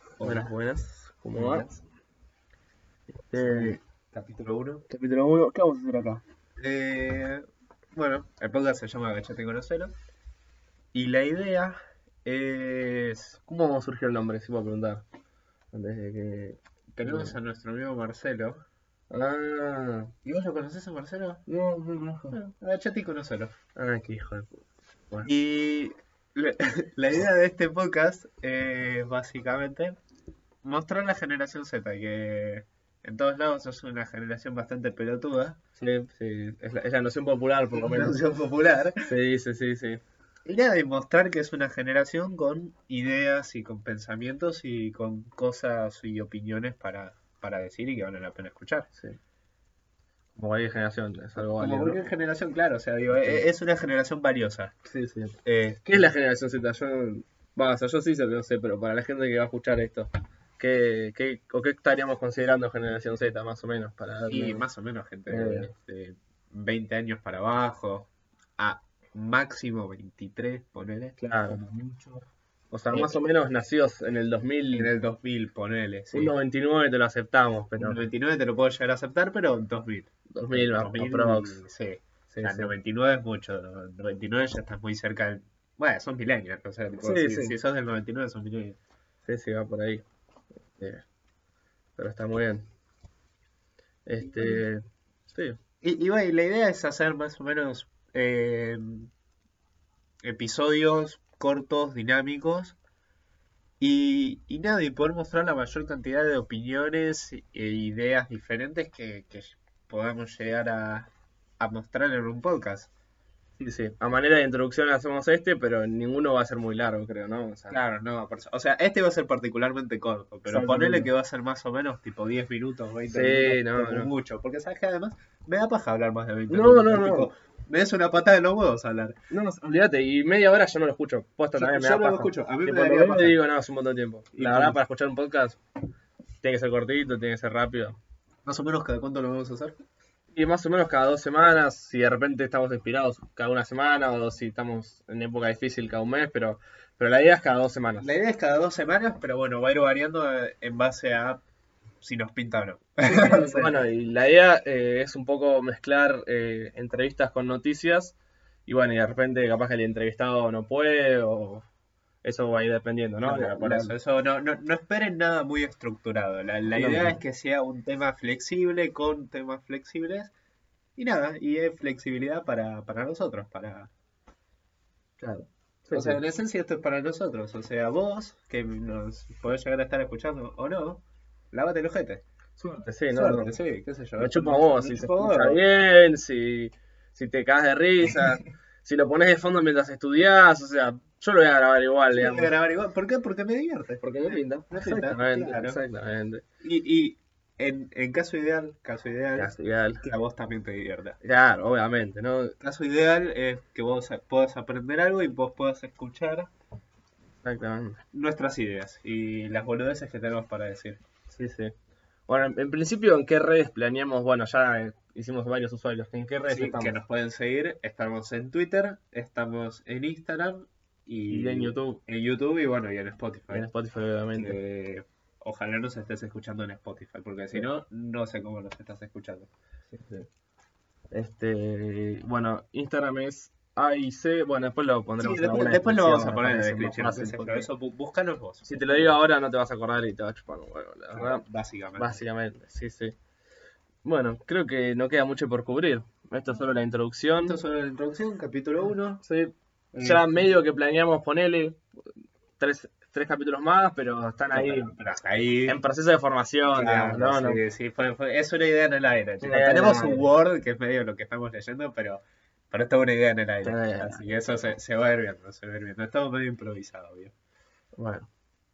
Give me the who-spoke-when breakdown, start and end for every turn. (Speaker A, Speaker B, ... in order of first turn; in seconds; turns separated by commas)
Speaker A: 0.2-0.5, Speaker B: 0.2-1.7, Speaker A: 1.3-1.8, Speaker B: 3.3-3.8, Speaker A: 3.4-4.8, Speaker B: 4.9-6.2, Speaker A: 6.6-9.9, Speaker A: 10.9-13.5, Speaker B: 13.5-15.0, Speaker B: 15.7-17.4, Speaker A: 16.9-18.6, Speaker B: 19.1-20.1, Speaker A: 20.2-21.4, Speaker B: 21.5-22.4, Speaker A: 22.3-23.5, Speaker B: 23.8-24.6, Speaker A: 25.2-30.0, Speaker A: 30.6-35.6, Speaker B: 35.8-38.2, Speaker A: 37.7-39.0, Speaker B: 39.0-40.0, Speaker A: 40.5-48.9, Speaker B: 50.4-52.0, Speaker A: 51.6-54.7, Speaker B: 53.1-53.4, Speaker B: 54.9-64.6, Speaker A: 55.4-56.0, Speaker A: 64.3-72.3, Speaker B: 65.3-65.7, Speaker B: 71.2-71.6, Speaker B: 72.7-74.9, Speaker A: 72.9-73.2, Speaker A: 74.7-76.3, Speaker B: 76.1-78.0, Speaker A: 77.8-88.8, Speaker B: 80.3-81.6, Speaker B: 82.3-82.8, Speaker B: 87.0-87.6, Speaker B: 89.3-90.1, Speaker B: 90.8-91.0, Speaker B: 92.0-92.7, Speaker B: 94.1-95.6, Speaker A: 94.2-94.7, Speaker A: 95.8-99.1, Speaker A: 100.2-102.8, Speaker A: 103.8-112.9, Speaker B: 113.6-117.8, Speaker A: 117.7-129.2, Speaker B: 120.5-121.1, Speaker B: 123.1-124.1, Speaker B: 126.5-127.3, Speaker B: 129.3-135.6, Speaker A: 131.6-133.4, Speaker A: 134.4-134.8, Speaker B: 136.4-138.0, Speaker A: 138.4-139.8, Speaker B: 140.3-148.1, Speaker A: 148.0-151.4, Speaker A: 152.0-153.8, Speaker B: 153.1-158.2, Speaker B: 158.7-161.6, Speaker B: 162.2-163.9, Speaker A: 163.2-170.3, Speaker B: 166.8-167.2, Speaker A: 171.0-173.9, Speaker B: 175.2-176.2, Speaker A: 175.9-182.2, Speaker B: 182.6-183.5, Speaker A: 183.1-185.6, Speaker B: 184.2-192.5, Speaker A: 188.1-188.3, Speaker A: 192.1-195.8, Speaker B: 194.0-196.4, Speaker A: 196.6-201.2, Speaker B: 199.3-200.0, Speaker B: 201.2-202.6, Speaker A: 202.6-206.5, Speaker B: 207.4-208.0, Speaker A: 208.1-211.0, Speaker B: 211.3-211.7, Speaker B: 212.3-217.0, Speaker A: 216.5-223.7, Speaker B: 221.3-222.0, Speaker B: 223.5-224.6, Speaker A: 224.4-229.5, Speaker B: 229.9-230.3, Speaker B: 231.1-237.7, Speaker A: 235.2-239.1, Speaker B: 238.7-241.4, Speaker A: 241.1-242.2, Speaker B: 242.0-243.2, Speaker B: 244.1-247.6, Speaker A: 247.4-249.2, Speaker B: 249.2-251.8, Speaker A: 249.9-250.3, Speaker B: 252.6-254.9, Speaker A: 254.5-255.8, Speaker B: 255.7-257.6, Speaker A: 256.7-267.3, Speaker B: 259.4-260.3, Speaker B: 263.6-264.2, Speaker B: 268.0-268.3